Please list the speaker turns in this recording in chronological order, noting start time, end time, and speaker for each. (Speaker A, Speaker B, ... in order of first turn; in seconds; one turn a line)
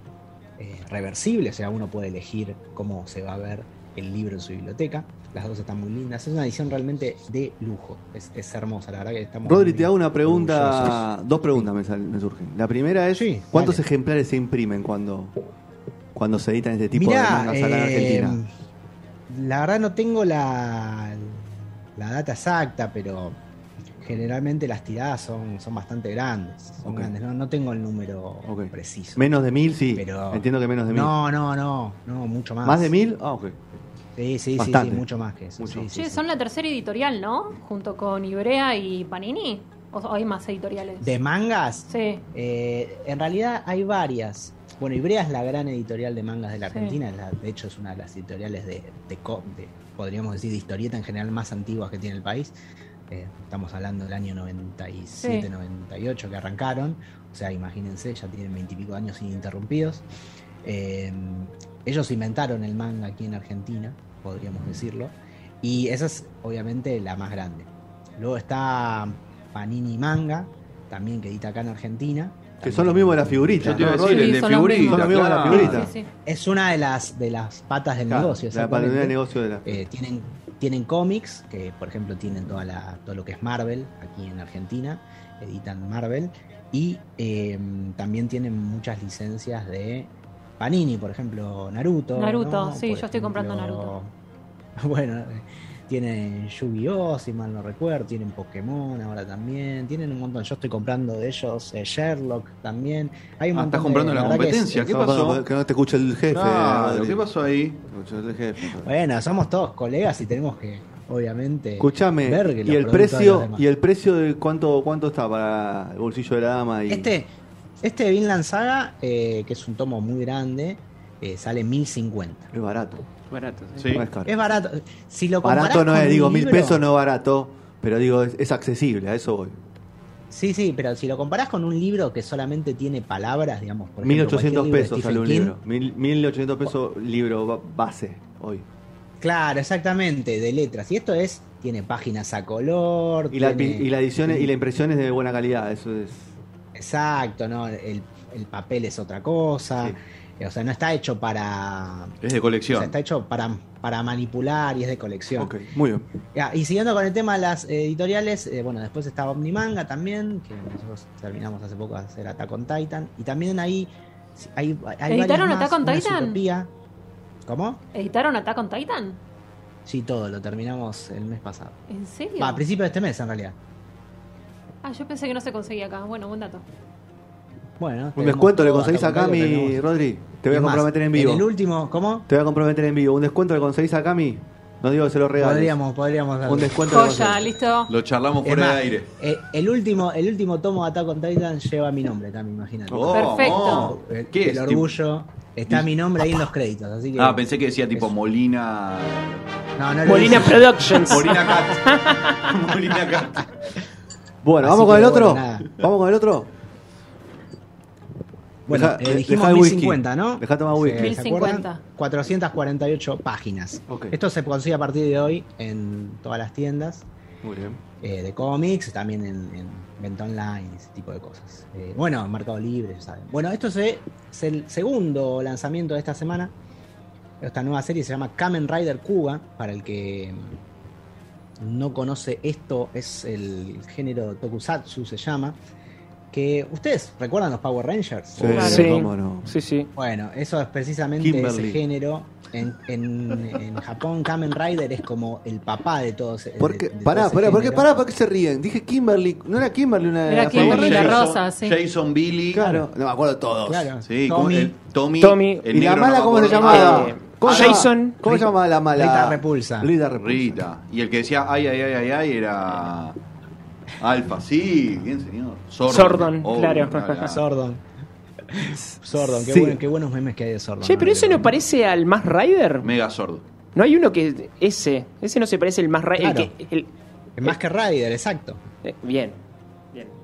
Speaker A: 0.6-11.7
Speaker B: 9.4-15.3
Speaker A: 13.1-13.8
Speaker B: 16.1-18.4
Speaker A: 16.9-18.5
Speaker A: 19.3-23.4
Speaker A: 24.0-29.3
Speaker B: 26.9-27.1
Speaker B: 28.5-31.1
Speaker A: 29.9-33.0
Speaker B: 32.6-33.6
Speaker A: 34.2-36.3
Speaker B: 34.6-35.1
Speaker B: 35.6-35.9
Speaker C: 35.9-41.2
Speaker A: 41.0-52.5
Speaker C: 41.9-42.2
Speaker C: 46.7-47.0
Speaker A: 53.1-60.0
Speaker C: 55.2-55.5
Speaker A: 60.6-74.1
Speaker B: 72.6-75.9
Speaker D: 73.6-75.9
Speaker C: 74.2-75.0
Speaker A: 75.5-94.1
Speaker C: 75.6-76.1
Speaker B: 78.1-79.8
Speaker C: 92.2-94.0
Speaker A: 94.8-104.9
Speaker D: 103.5-105.4
Speaker B: 104.8-107.2
Speaker D: 106.3-107.8
Speaker B: 107.9-108.9
Speaker A: 108.7-113.7
Speaker B: 111.8-117.1
Speaker A: 116.9-122.5
Speaker B: 122.5-123.1
Speaker E: 123.3-123.9
Speaker D: 123.8-124.0
Speaker B: 123.9-124.3
Speaker A: 124.2-126.8
Speaker B: 125.4-129.6
Speaker A: 130.3-135.6
Speaker B: 134.0-138.7
Speaker A: 139.2-144.6
Speaker B: 143.3-146.2
Speaker A: 146.8-152.2
Speaker D: 152.2-152.9
Speaker A: 152.7-155.6
Speaker B: 155.4-156.1
Speaker A: 156.3-166.7
Speaker C: 165.1-166.4
Speaker A: 167.5-167.8
Speaker C: 167.9-169.2
Speaker A: 169.8-171.8
Speaker C: 171.9-172.6
Speaker A: 172.4-173.6
Speaker C: 174.8-176.7
Speaker A: 177.8-179.8
Speaker B: 178.2-181.5
Speaker A: 180.5-182.3
Speaker B: 182.3-185.8
Speaker A: 185.4-186.8
Speaker B: 186.4-187.5
Speaker C: 186.9-187.9
Speaker D: 187.9-189.1
Speaker A: 188.4-198.1
Speaker B: 192.9-193.2
Speaker D: 192.9-194.9
Speaker C: 193.1-193.9
Speaker D: 197.2-199.4
Speaker A: 199.8-201.2
Speaker E: 200.1-202.3
Speaker D: 201.1-203.5
Speaker B: 204.4-206.5
Speaker A: 204.6-205.8
Speaker A: 208.7-217.1
Speaker B: 208.7-211.2
Speaker C: 210.9-211.8
Speaker B: 213.9-214.2
Speaker B: 217.4-217.8
Speaker A: 218.0-226.5
Speaker A: 227.4-230.6
Speaker A: 231.6-235.6
Speaker A: 236.3-238.9
Speaker B: 238.4-239.5
Speaker C: 238.5-238.9
Speaker E: 238.8-239.9
Speaker A: 240.0-247.9
Speaker B: 241.2-241.8
Speaker B: 246.6-251.2
Speaker C: 250.2-251.8
Speaker D: 250.5-252.8
Speaker B: 252.5-253.9
Speaker A: 252.6-252.9
Speaker A: 253.7-254.8
Speaker D: 254.1-257.9
Speaker E: 255.2-255.7
Speaker B: 255.7-260.7
Speaker E: 256.4-258.2
Speaker A: 258.2-259.9
Speaker D: 260.2-263.2
Speaker D: 264.0-267.4
Speaker E: 265.9-267.2
Speaker A: 267.3-267.8
Speaker A: 268.5-271.5
Speaker B: 268.8-269.8
Speaker E: 270.8-272.9
Speaker D: 272.8-273.4
Speaker E: 273.8-276.9
Speaker A: 276.2-276.5
Speaker A: 277.4-278.6
Speaker E: 278.9-279.4